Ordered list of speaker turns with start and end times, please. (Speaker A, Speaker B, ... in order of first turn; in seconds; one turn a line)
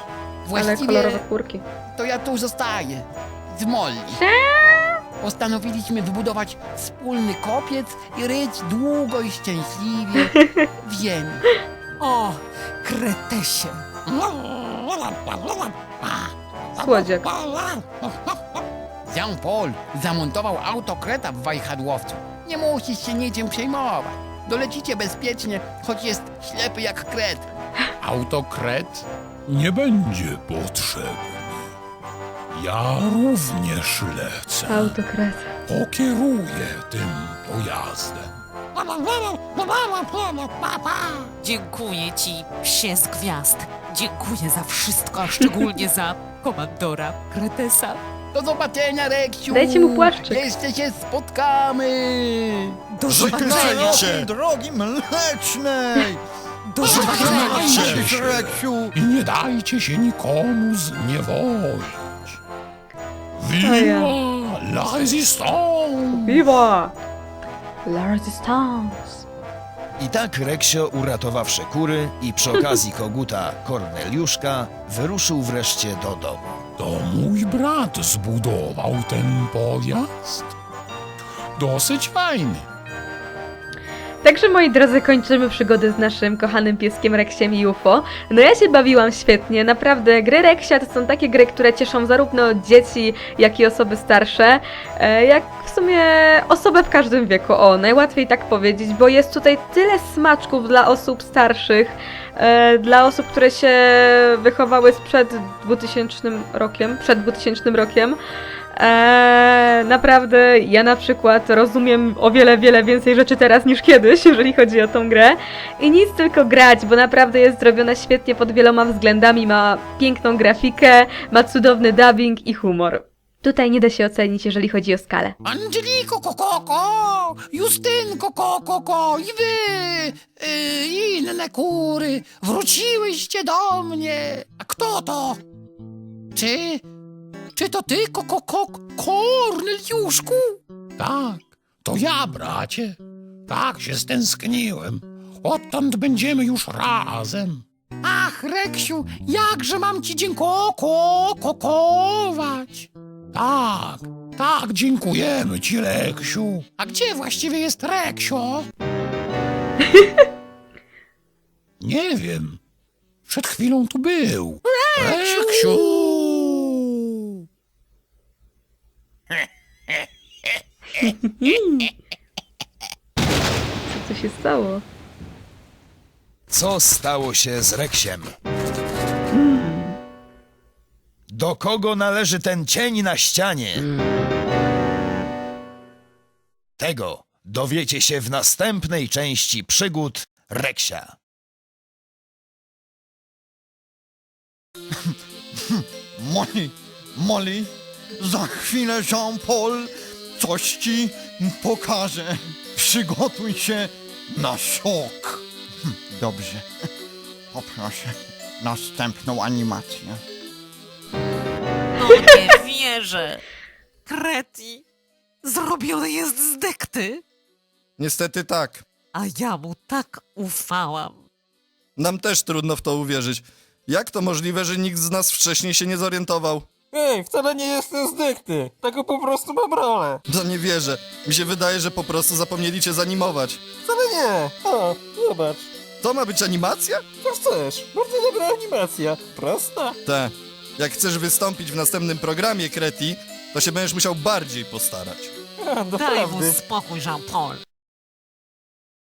Speaker A: 0.4-1.2
Speaker B: 0.5-1.6
Speaker A: 1.9-4.2
Speaker B: 4.1-5.0
Speaker A: 5.2-11.4
Speaker C: 12.0-13.9
Speaker D: 14.4-15.4
Speaker B: 16.8-17.3
Speaker D: 17.0-17.6
Speaker A: 19.0-27.5
Speaker D: 28.0-31.7
Speaker D: 32.5-35.0
Speaker B: 34.7-35.5
Speaker D: 35.7-41.3
Speaker C: 41.4-48.0
Speaker A: 48.3-52.8
Speaker B: 49.5-50.4
Speaker C: 52.9-54.1
Speaker E: 53.1-56.2
Speaker F: 54.0-54.3
Speaker C: 56.6-58.0
Speaker E: 56.8-58.9
Speaker D: 56.8-62.4
Speaker D: 63.3-66.5
Speaker B: 63.6-64.1
Speaker B: 66.1-67.0
Speaker B: 67.8-69.2
Speaker G: 70.0-76.6
Speaker D: 76.8-80.5
Speaker D: 81.6-82.6
Speaker B: 84.2-108.2
Speaker B: 108.7-125.3
Speaker D: 125.4-135.4
Speaker D: 136.3-136.8
Speaker D: 137.6-143.0
Speaker D: 143.5-158.7
Speaker B: 159.8-160.2
Speaker D: 161.8-162.6
Speaker D: 163.3-167.1
Speaker B: 170.9-171.9
Speaker B: 173.9-174.8
Speaker G: 176.5-178.3
Speaker B: 179.3-180.0
Speaker G: 181.3-183.9
Speaker B: 183.8-184.2
Speaker G: 186.8-191.2
Speaker E: 195.1-206.6
Speaker E: 207.5-210.2
Speaker C: 211.9-213.4
Speaker C: 214.1-214.8
Speaker C: 215.4-217.2
Speaker F: 218.0-218.8
Speaker C: 219.1-221.2
Speaker F: 222.0-226.7
Speaker H: 226.9-230.2
Speaker F: 230.3-233.7
Speaker H: 233.8-235.7
Speaker F: 236.0-237.0
Speaker H: 237.2-240.0
Speaker F: 240.1-245.3
Speaker H: 245.6-246.6
Speaker C: 245.9-247.6